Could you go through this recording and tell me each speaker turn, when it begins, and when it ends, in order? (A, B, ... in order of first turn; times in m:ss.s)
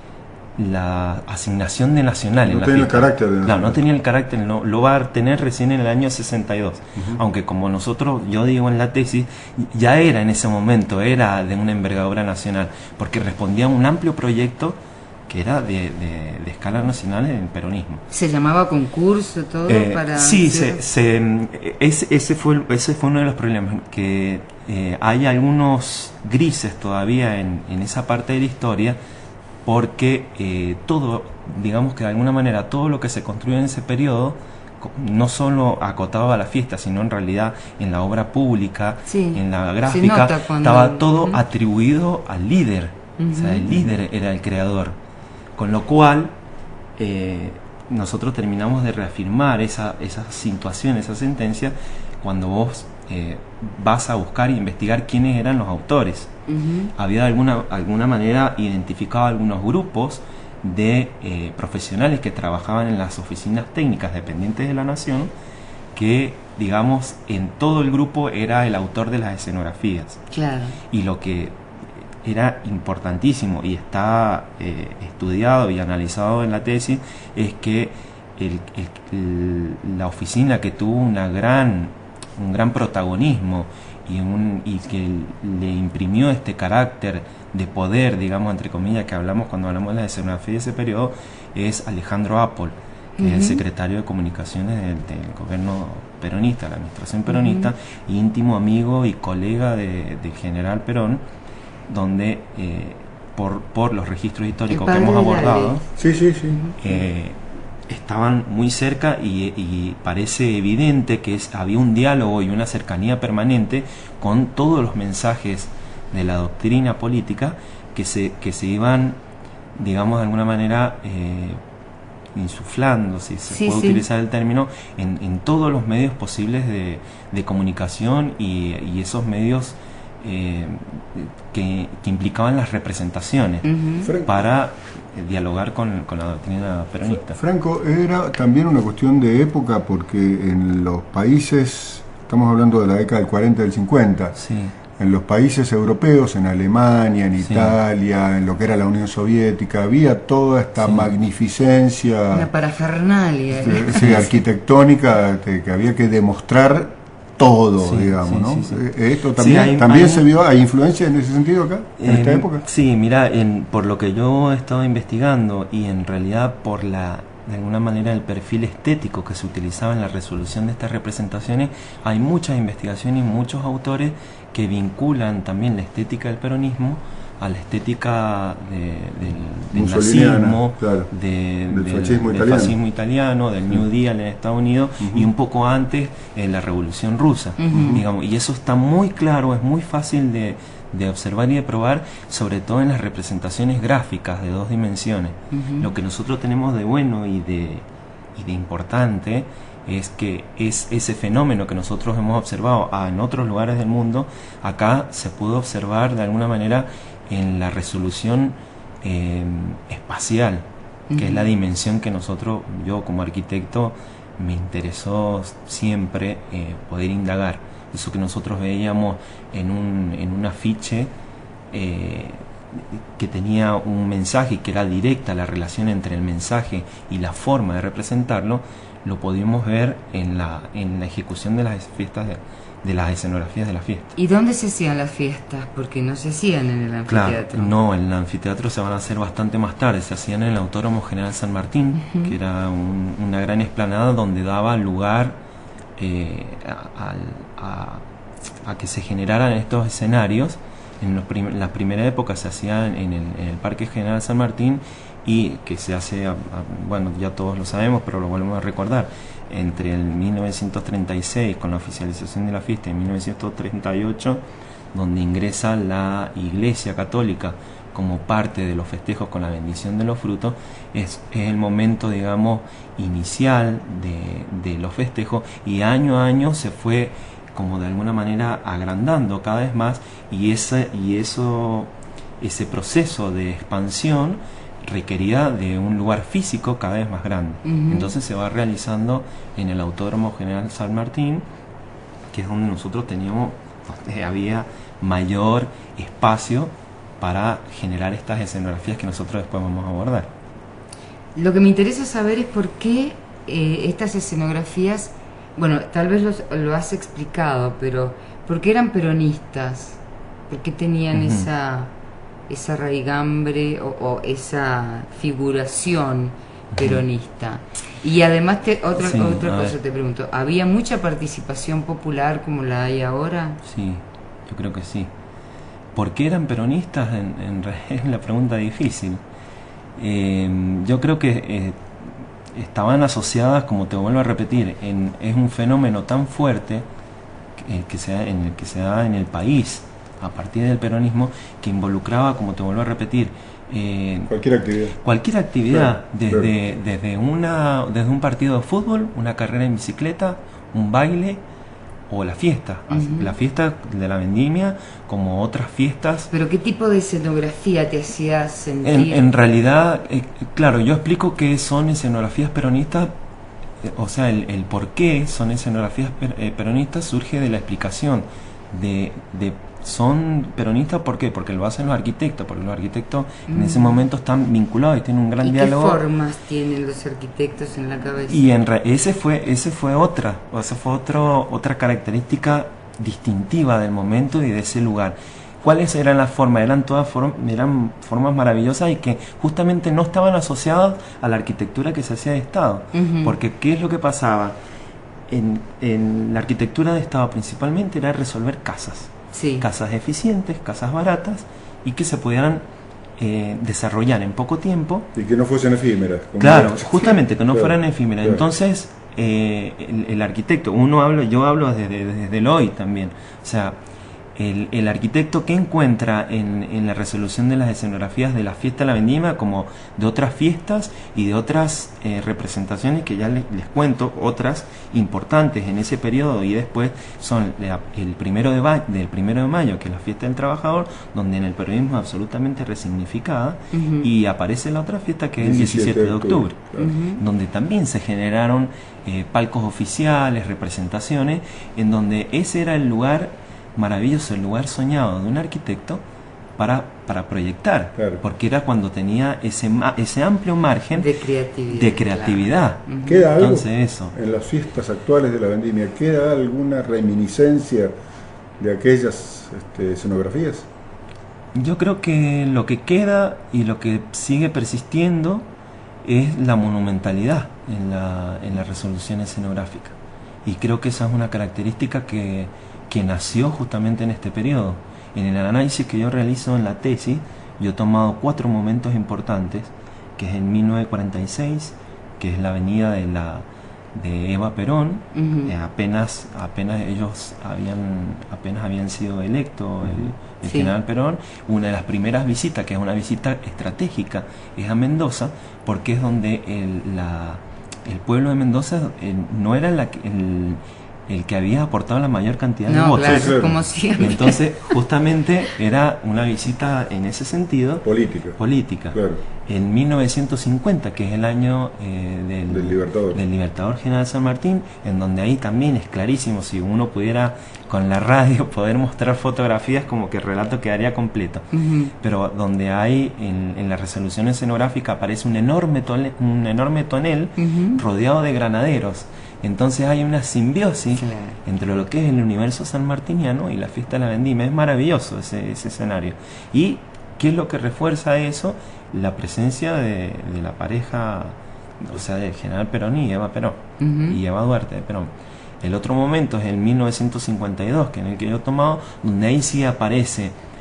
0:00.6-0:18.0 A
0:02.5-0:03.8 B
0:18.1-0:20.8 C
0:19.7-0:29.0 A
0:29.6-0:45.0 A
0:39.1-0:41.4 C
0:43.2-0:43.9 C
0:45.6-0:46.3 A
0:47.0-0:56.3 A
0:56.5-0:56.9 C
0:57.0-1:05.3 A
1:05.9-1:10.2 A
1:10.3-1:10.8 C
1:10.9-1:11.6 A
1:12.2-1:41.2 A
1:33.2-1:33.6 C
1:37.3-1:37.7 C
1:41.9-1:45.8 A
1:44.7-1:45.8 C
1:46.0-1:46.6 B
1:46.6-1:47.0 C
1:46.8-1:59.2 A
1:59.8-2:01.6 A
2:02.3-2:13.7 A
2:03.5-2:04.0 C
2:13.6-2:14.1 C
2:14.0-2:14.4 B
2:14.2-2:17.4 A
2:17.3-2:24.3 B
2:24.4-2:24.7 A
2:25.0-2:32.5 B
2:27.4-2:27.8 A
2:30.8-2:31.1 A
2:32.3-2:34.3 C
2:33.5-2:42.6 B
2:33.9-2:34.3 A
2:37.8-2:38.8 A
2:39.3-2:40.3 A
2:42.0-3:30.6 A
2:59.7-3:01.1 B
3:01.7-3:02.8 B
3:05.0-3:05.3 B
3:07.6-3:08.0 C
3:07.7-3:08.0 B
3:15.5-3:15.9 C
3:31.1-3:31.5 C
3:31.2-3:41.1 A
3:41.7-3:54.1 A
3:54.2-3:57.7 C
3:57.1-4:05.4 A
4:02.0-4:02.3 C
4:06.0-4:08.0 A
4:08.6-4:24.4 A
4:24.9-4:51.4 A
4:47.6-4:48.1 C
4:52.3-5:00.3 A
5:01.3-5:11.9 C
5:11.1-5:11.5 A
5:12.5-5:23.6 C
5:16.7-5:17.0 A
5:19.0-5:19.8 A
5:23.6-5:25.1 A
5:25.9-5:29.2 A
5:30.0-5:31.8 A
5:32.5-5:36.8 A
5:37.6-5:44.3 A
5:44.3-5:45.0 B
5:45.0-5:51.4 A
5:45.7-5:46.5 B
5:52.1-5:56.3 A
5:52.9-5:53.3 C
5:56.3-5:59.3 C
5:58.8-6:03.1 A
6:03.8-6:16.0 A
6:13.5-6:14.0 C
6:15.4-6:18.4 C
6:18.3-6:34.6 A
6:32.9-6:33.4 C
6:35.3-6:42.6 A
6:39.3-6:39.7 C
6:43.2-6:45.1 A
6:45.1-6:48.4 B
6:46.4-6:53.8 A
6:54.4-7:26.0 A
7:13.7-7:14.1 C
7:15.4-7:16.9 B
7:16.8-7:17.2 C
7:26.6-7:31.0 A
7:27.9-7:28.2 B
7:30.9-7:33.3 C
7:31.7-7:32.8 A
7:33.0-7:37.9 B
7:33.4-7:34.1 A
7:38.6-7:40.7 B
7:41.5-7:45.4 A
7:46.0-8:23.4 A
8:05.1-8:05.5 C
8:09.8-8:10.1 B
8:10.4-8:10.7 C
8:22.6-8:24.8 C
8:23.0-8:23.6 B
8:24.0-8:41.5 A
8:27.8-8:28.4 B
8:28.9-8:29.2 B
8:32.5-8:33.2 B
8:41.5-8:41.9 C
8:42.0-9:10.3 A
8:47.4-8:47.8 C
8:50.9-8:51.4 C
9:03.8-9:04.2 C